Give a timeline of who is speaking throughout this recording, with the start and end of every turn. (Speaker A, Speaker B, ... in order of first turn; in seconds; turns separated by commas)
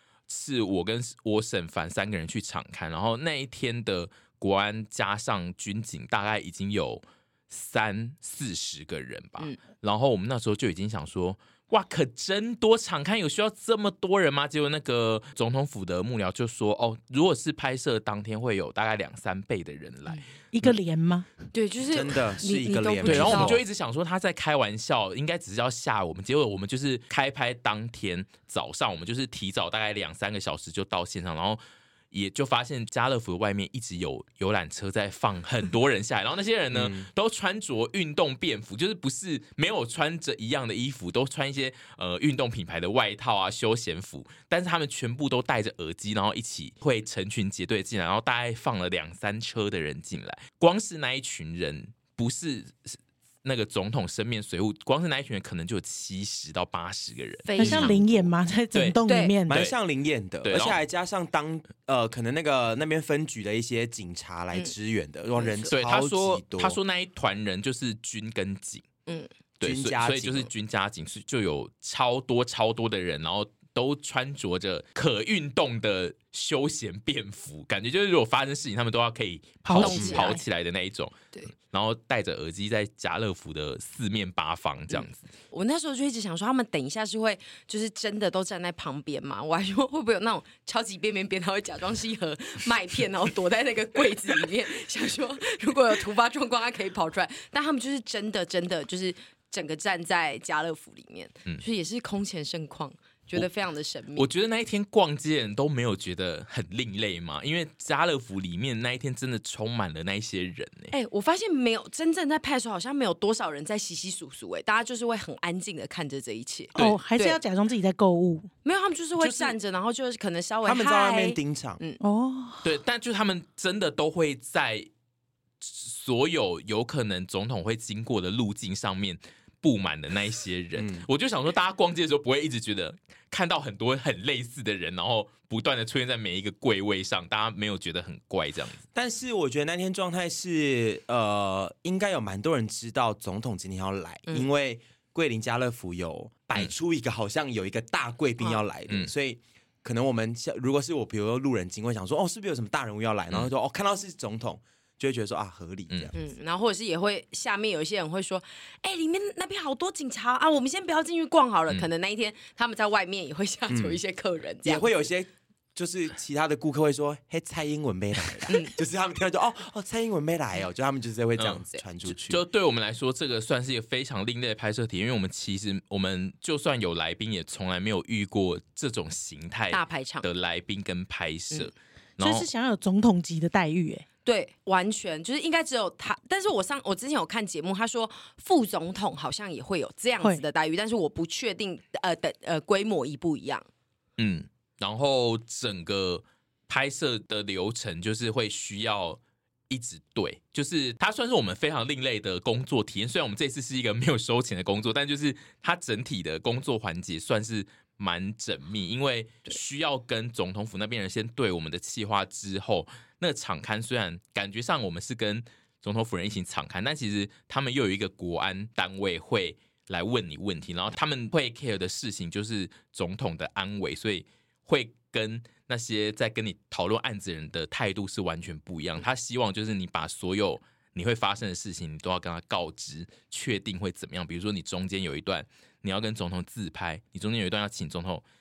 Speaker A: 0.3-20.2, Speaker B: 20.5-21.3, Speaker C: 21.5-23.6, Speaker D: 21.9-23.6, Speaker A: 23.0-57.9, Speaker D: 36.7-37.0, Speaker C: 57.4-58.3, Speaker B: 57.5-59.6, Speaker A: 58.7-59.7, Speaker C: 59.0-59.4, Speaker D: 59.5-66.8, Speaker A: 60.4-60.8, Speaker C: 65.3-65.7, Speaker A: 65.7-68.8, Speaker A: 69.6-85.2, Speaker D: 69.6-70.5, Speaker B: 79.7-80.3, Speaker C: 79.7-80.4, Speaker D: 79.9-80.2, Speaker C: 84.9-104.3, Speaker A: 104.2-110.9, Speaker C: 110.9-117.4, Speaker B: 116.7-118.5, Speaker C: 118.6-122.0, Speaker A: 119.2-119.5, Speaker D: 120.6-121.8, Speaker B: 122.0-122.7, Speaker A: 122.6-124.9, Speaker A: 125.6-138.8, Speaker D: 130.8-131.1, Speaker D: 138.9-156.1, Speaker C: 156.1-164.8, Speaker D: 163.7-164.0, Speaker D: 164.6-172.4, Speaker C: 168.5-168.7, Speaker A: 171.4-182.5, Speaker C: 179.7-180.2, Speaker B: 182.2-184.0, Speaker C: 184.2-193.7, Speaker A: 194.2-199.2, Speaker A: 199.7-238.2